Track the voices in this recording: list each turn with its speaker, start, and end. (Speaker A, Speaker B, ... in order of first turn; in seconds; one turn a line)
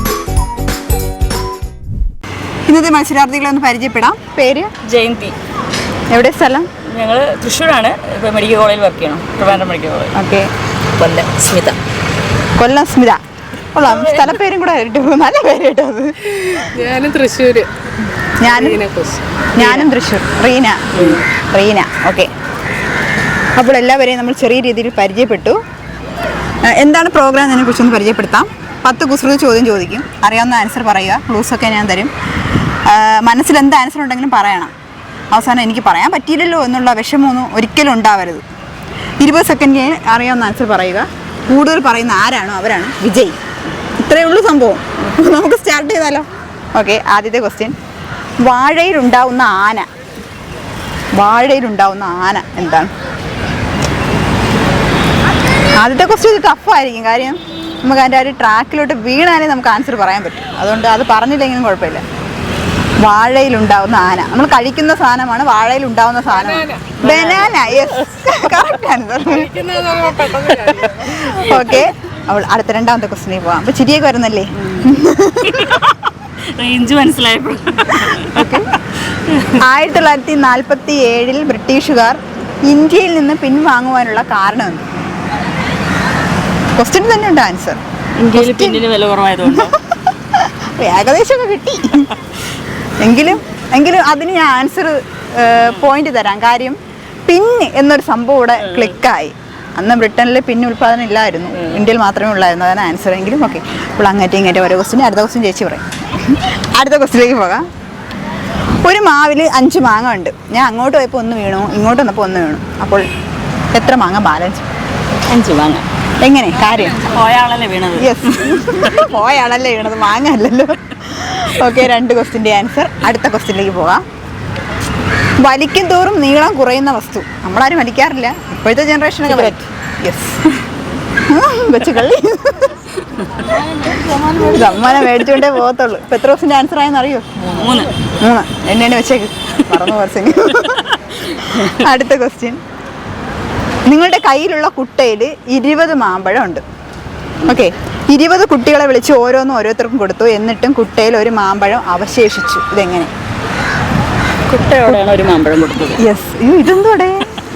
Speaker A: 2.7-4.8
Speaker B: 4.8-5.4
Speaker A: 6.1-6.7
Speaker B: 6.8-10.1
Speaker A: 10.1-10.5
Speaker B: 11.0-11.8
Speaker A: 12.6-13.2
Speaker A: 13.7-16.7
Speaker C: 16.5-17.7
Speaker A: 18.4-18.8
Speaker C: 18.4-19.7
Speaker A: 19.6-22.3
Speaker B: 20.9-21.2
Speaker A: 23.6-25.6
Speaker A: 26.6-32.1
Speaker A: 32.7-34.7
Speaker A: 35.3-38.4
Speaker A: 39.2-47.8
Speaker A: 48.4-49.9
Speaker A: 51.1-52.9
Speaker A: 55.8-62.0
Speaker A: 63.0-69.6
Speaker C: 66.4-66.9
Speaker B: 67.0-67.6
Speaker C: 69.3-71.2
Speaker B: 70.7-71.8
Speaker A: 71.2-75.9
Speaker B: 75.4-79.6
Speaker A: 78.2-78.7
Speaker A: 79.5-84.9
Speaker A: 86.8-87.8
Speaker B: 88.2-89.8
Speaker A: 88.3-88.8
Speaker A: 89.5-92.2
Speaker A: 93.0-107.7
Speaker B: 101.6-101.8
Speaker A: 108.8-113.1
Speaker A: 113.7-114.7
Speaker B: 115.3-115.9
Speaker A: 116.2-117.2
Speaker B: 117.0-119.1
Speaker A: 118.0-124.0
Speaker A: 125.4-130.6
Speaker A: 131.2-132.8
Speaker C: 133.5-134.6
Speaker A: 134.3-142.6
Speaker B: 137.5-137.9
Speaker A: 143.9-146.6
Speaker A: 147.4-153.1
Speaker B: 154.5-156.1
Speaker A: 156.0-157.3